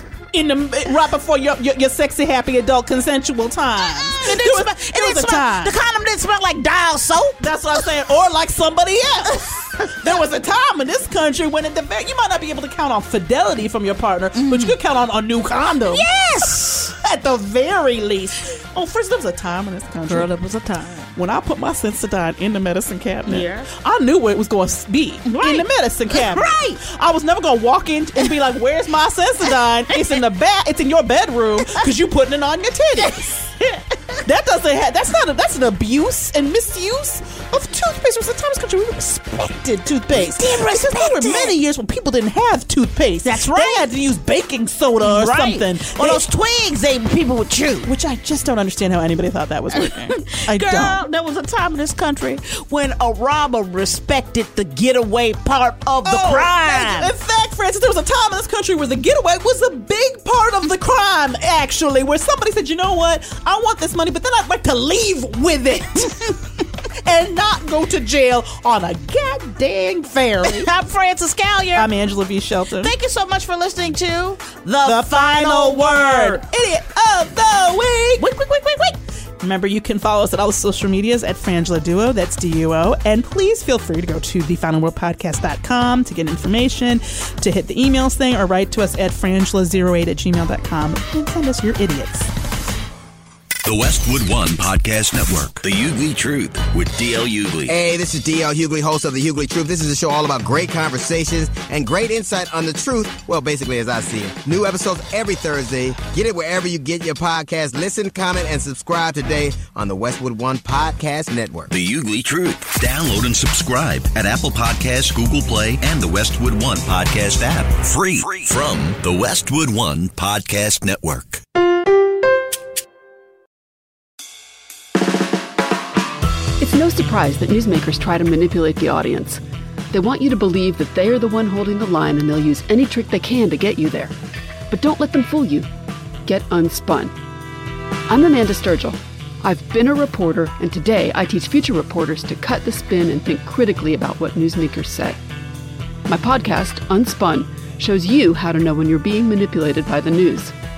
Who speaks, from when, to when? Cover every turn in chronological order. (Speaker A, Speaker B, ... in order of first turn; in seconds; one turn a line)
Speaker A: 0.3-5.7
Speaker B: 4.1-7.9
Speaker A: 7.4-16.1
Speaker B: 14.3-14.8
Speaker B: 15.9-16.9
Speaker A: 16.7-20.3
Speaker B: 20.1-21.1
Speaker A: 21.1-33.3
Speaker B: 23.3-23.7
Speaker B: 25.2-26.8
Speaker B: 33.0-34.2
Speaker A: 34.2-46.2
Speaker B: 40.1-41.5
Speaker B: 43.2-43.9
Speaker B: 45.0-47.9
Speaker A: 47.8-51.0
Speaker B: 49.7-57.1
Speaker A: 56.0-66.4
Speaker A: 67.0-70.7
Speaker B: 70.4-71.9
Speaker A: 71.7-72.9
Speaker B: 72.8-76.4
Speaker A: 74.8-78.3
Speaker B: 78.2-79.0
Speaker A: 79.4-92.3
Speaker C: 93.6-97.8
Speaker D: 97.7-111.7
Speaker C: 111.7-121.4
Speaker E: 126.6-134.1
Speaker E: 134.7-135.7
Speaker E: 136.2-137.1
Speaker E: 138.1-145.2
Speaker E: 146.1-150.5